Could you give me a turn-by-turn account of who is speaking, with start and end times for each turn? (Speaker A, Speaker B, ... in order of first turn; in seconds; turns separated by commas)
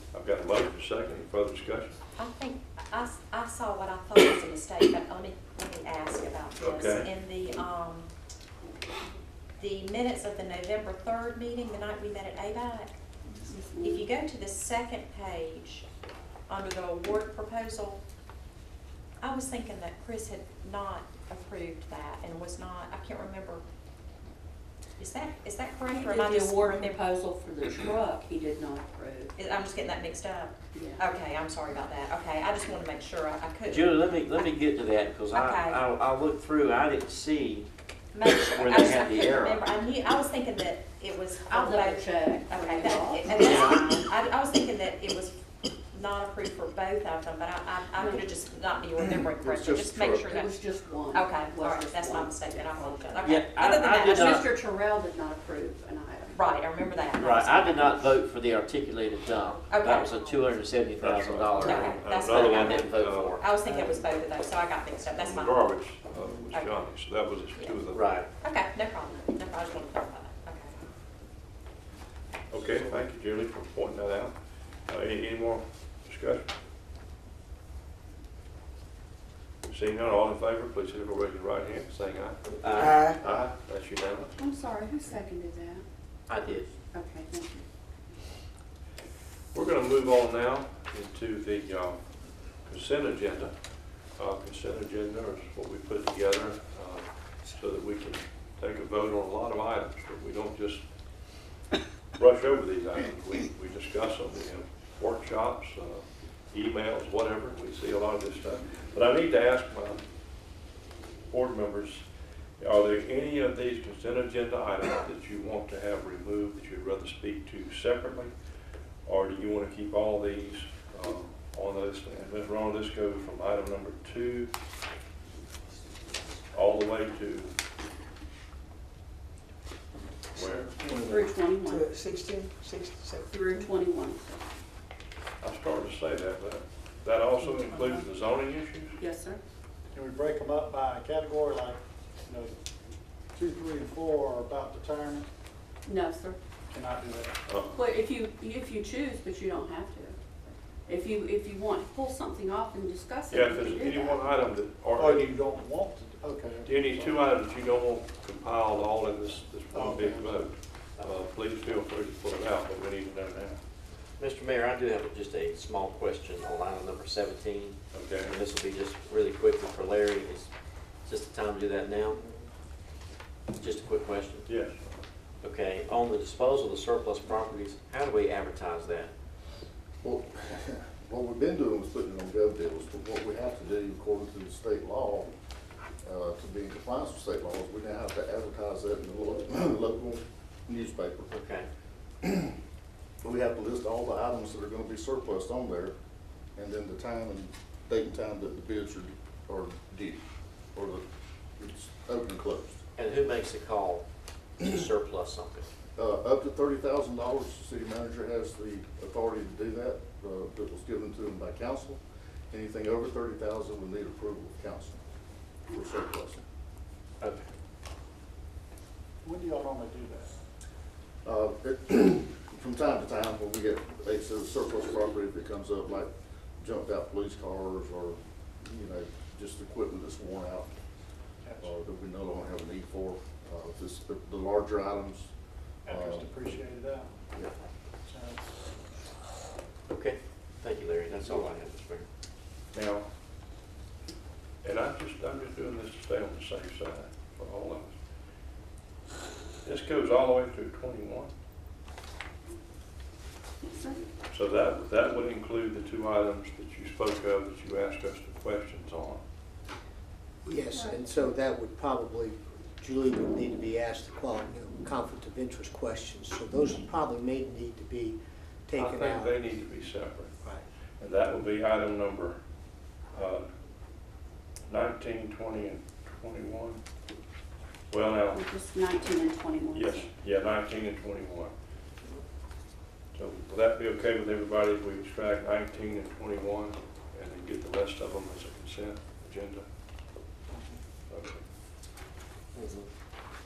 Speaker A: 0.1-2.0, Speaker B: 2.2-8.1, Speaker A: 6.6-7.1, Speaker B: 9.6-12.9, Speaker C: 13.5-14.1, Speaker B: 13.8-15.9, Speaker B: 16.5-18.0, Speaker B: 19.2-23.6, Speaker B: 25.0-27.0, Speaker C: 25.9-29.4, Speaker B: 29.4-34.0, Speaker C: 30.7-31.1, Speaker D: 33.7-37.7, Speaker B: 35.3-35.8, Speaker B: 38.1-50.6, Speaker D: 38.2-39.6, Speaker C: 41.5-44.0, Speaker D: 43.4-44.0, Speaker C: 47.9-48.4, Speaker E: 49.2-50.2, Speaker C: 50.2-53.3, Speaker B: 51.1-54.4, Speaker D: 53.2-54.5, Speaker C: 54.0-56.6, Speaker B: 56.3-58.1, Speaker D: 57.2-63.5, Speaker B: 59.7-60.5, Speaker A: 61.0-63.4, Speaker B: 61.6-65.8, Speaker A: 65.1-68.0, Speaker B: 66.5-66.9, Speaker D: 67.9-68.3, Speaker B: 68.4-70.8, Speaker A: 72.5-74.4, Speaker A: 74.9-76.5, Speaker A: 79.7-84.4, Speaker D: 82.5-83.0, Speaker C: 84.4-85.8, Speaker D: 86.3-86.7, Speaker C: 86.9-87.6, Speaker A: 89.5-92.0, Speaker A: 92.7-93.5, Speaker A: 94.2-100.8, Speaker A: 102.2-110.1, Speaker A: 111.3-112.1, Speaker A: 112.6-118.3, Speaker A: 119.1-124.5, Speaker A: 126.5-127.5, Speaker A: 130.3-130.8, Speaker C: 130.9-132.0, Speaker A: 132.0-133.1, Speaker C: 133.3-134.4, Speaker A: 135.4-139.0, Speaker C: 139.0-139.4, Speaker F: 139.9-142.5, Speaker F: 143.3-145.3, Speaker C: 145.9-146.4, Speaker F: 146.7-147.4, Speaker A: 147.5-147.9, Speaker C: 147.7-150.2, Speaker C: 150.9-154.3, Speaker A: 153.3-155.3, Speaker F: 155.0-157.1, Speaker A: 156.7-163.6, Speaker F: 159.7-160.4, Speaker D: 164.2-170.5, Speaker A: 167.9-168.4, Speaker D: 171.1-172.2, Speaker D: 173.6-174.5, Speaker A: 174.5-174.9, Speaker D: 175.4-179.1, Speaker E: 180.0-185.3, Speaker E: 186.0-191.3, Speaker D: 191.3-191.7, Speaker E: 192.2-192.6, Speaker E: 193.2-195.9, Speaker E: 196.6-200.2, Speaker E: 200.8-201.0, Speaker E: 201.6-202.8, Speaker D: 203.0-204.1, Speaker D: 204.6-205.7, Speaker E: 206.0-215.0, Speaker E: 215.7-216.4, Speaker D: 217.2-217.5, Speaker F: 219.2-220.4, Speaker E: 221.2-230.8, Speaker F: 231.4-231.7, Speaker E: 231.6-235.3, Speaker F: 235.8-237.2, Speaker E: 235.9-236.4, Speaker F: 238.1-238.4, Speaker D: 239.9-242.1, Speaker A: 241.2-241.4, Speaker A: 242.7-243.1, Speaker A: 244.6-248.0, Speaker A: 249.6-251.3, Speaker C: 253.6-254.0, Speaker A: 254.3-259.2, Speaker G: 260.4-269.3, Speaker C: 260.6-261.1, Speaker A: 268.8-270.3, Speaker A: 271.0-272.4, Speaker A: 273.1-273.5, Speaker A: 274.7-276.8, Speaker A: 277.9-278.5, Speaker C: 278.3-280.1, Speaker A: 279.7-281.5, Speaker A: 283.1-289.7, Speaker A: 291.1-291.4, Speaker D: 292.6-292.9